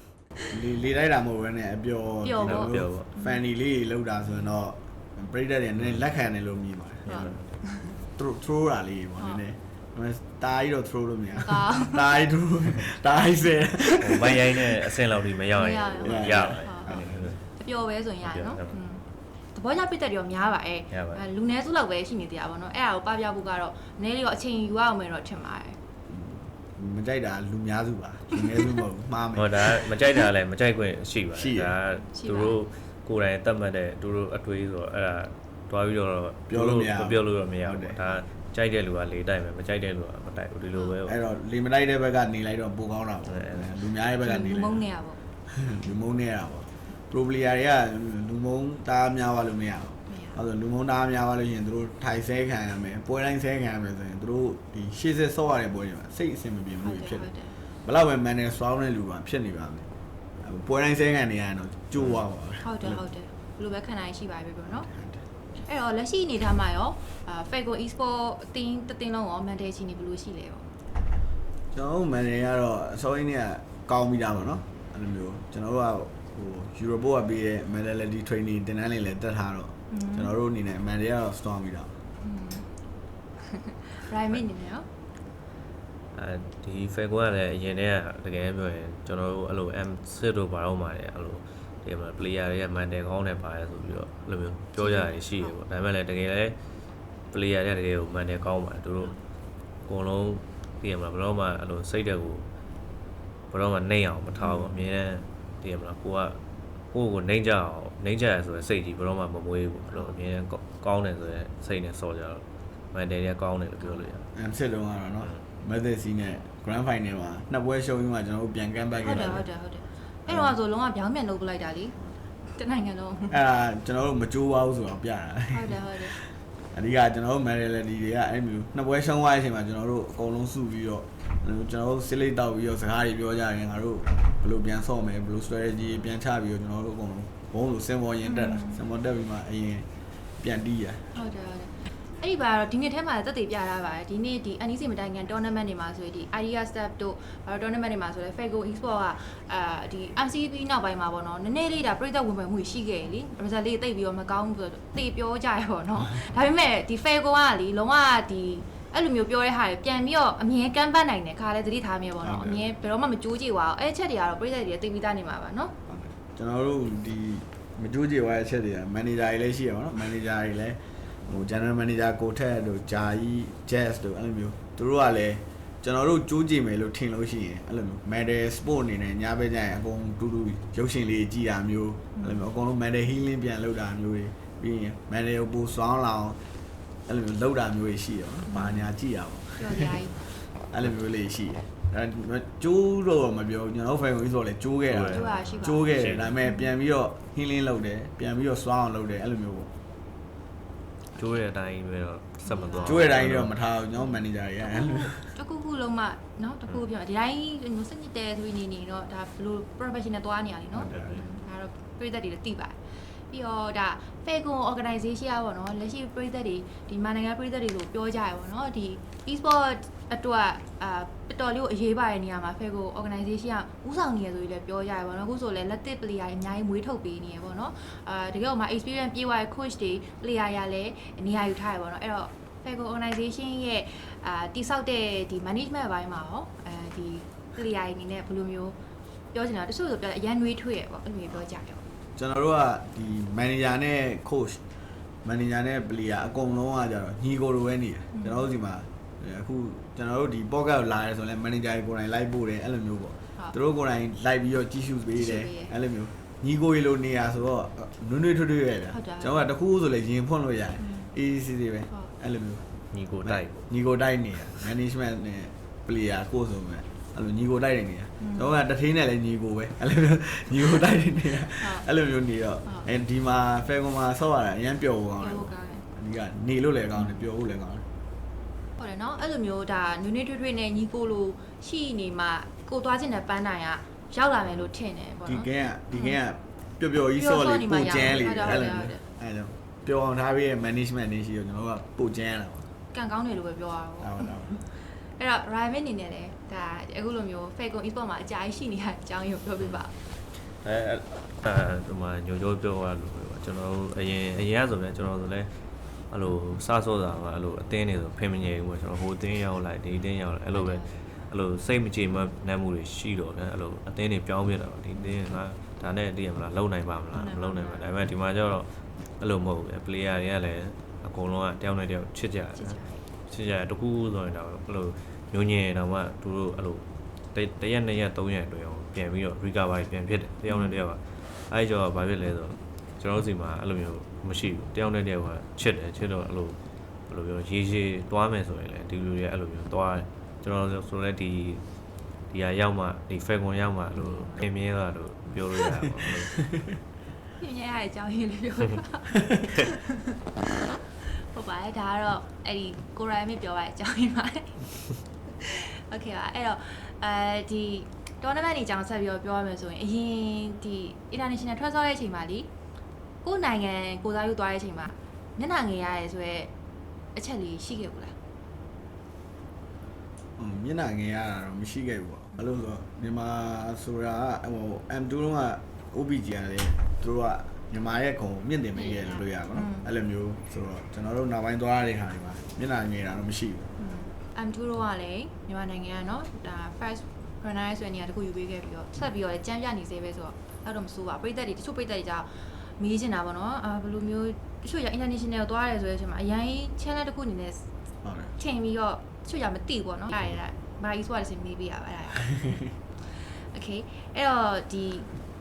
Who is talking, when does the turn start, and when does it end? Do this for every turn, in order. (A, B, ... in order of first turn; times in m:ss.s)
0:00.5-0:07.4 A
0:02.2-0:03.4 B
0:02.4-0:03.1 C
0:07.1-0:08.0 B
0:07.1-0:07.4 C
0:08.1-0:14.8 A
0:11.3-0:12.2 B
0:14.0-0:17.4 C
0:15.6-0:25.8 B
0:16.0-0:17.4 A
0:18.2-0:18.8 C
0:20.9-0:21.2 C
0:26.1-0:29.9 A
0:29.4-0:41.2 C
0:31.3-0:31.7 A
0:32.1-0:32.6 B
0:36.5-0:38.0 A
0:41.1-0:44.8 A
0:43.3-0:43.7 C
0:44.2-0:45.2 B
0:45.5-0:57.3 A
0:50.1-0:50.4 B
0:56.8-0:57.6 B
0:57.8-0:59.9 A
1:00.4-1:03.0 A
1:02.6-1:04.9 B
1:04.7-1:05.2 A
1:05.6-1:10.7 B
1:11.7-1:22.0 A
1:19.9-1:20.3 B
1:22.2-1:22.7 B
1:23.4-1:24.9 B
1:26.1-1:36.6 C
1:34.8-1:35.6 B
1:37.3-1:39.2 C
1:39.8-1:42.5 C
1:43.5-1:46.4 C
1:46.9-1:54.3 C
1:54.3-1:59.4 A
1:59.0-2:03.4 B
2:00.3-2:00.5 A
2:03.3-2:19.9 A
2:05.5-2:06.2 B
2:18.2-2:18.8 B
2:20.4-2:21.1 A
2:21.1-2:45.8 B
2:42.2-2:42.6 A
2:45.9-3:06.4 A
3:07.1-3:10.0 A
3:08.5-3:08.9 B
3:09.6-3:10.2 B
3:10.6-3:19.7 A
3:14.9-3:16.4 C
3:15.1-3:16.7 B
3:21.2-3:23.5 C
3:22.4-3:23.1 B
3:22.8-3:25.3 A
3:24.0-3:58.8 B
3:30.8-3:31.3 C
3:30.9-3:31.2 A
3:59.3-4:01.8 B
4:02.2-4:04.6 A
4:05.2-4:22.6 A
4:08.1-4:08.5 B
4:15.2-4:15.7 B
4:18.9-4:19.3 B
4:20.8-4:21.1 B
4:22.9-4:23.6 C
4:23.2-4:37.8 A
4:28.2-4:28.5 B
4:31.6-4:31.9 B
4:35.2-4:35.9 B
4:38.8-4:46.2 B
4:45.3-4:52.7 A
4:47.1-4:49.0 B
4:52.9-4:59.9 B
4:54.0-4:54.5 A
5:00.6-5:05.5 C
5:06.1-5:41.6 C
5:10.5-5:11.0 B
5:17.1-5:17.9 B
5:22.6-5:23.0 B
5:30.5-5:30.8 B
5:42.3-5:46.5 C
5:44.0-5:44.4 B
5:47.4-5:50.2 B
5:50.9-6:02.5 B
6:03.2-6:06.5 B
6:07.1-6:08.2 B
6:10.4-6:23.7 A
6:18.8-6:19.9 B
6:23.8-6:37.7 B
6:38.0-6:38.3 A
6:38.4-6:45.1 B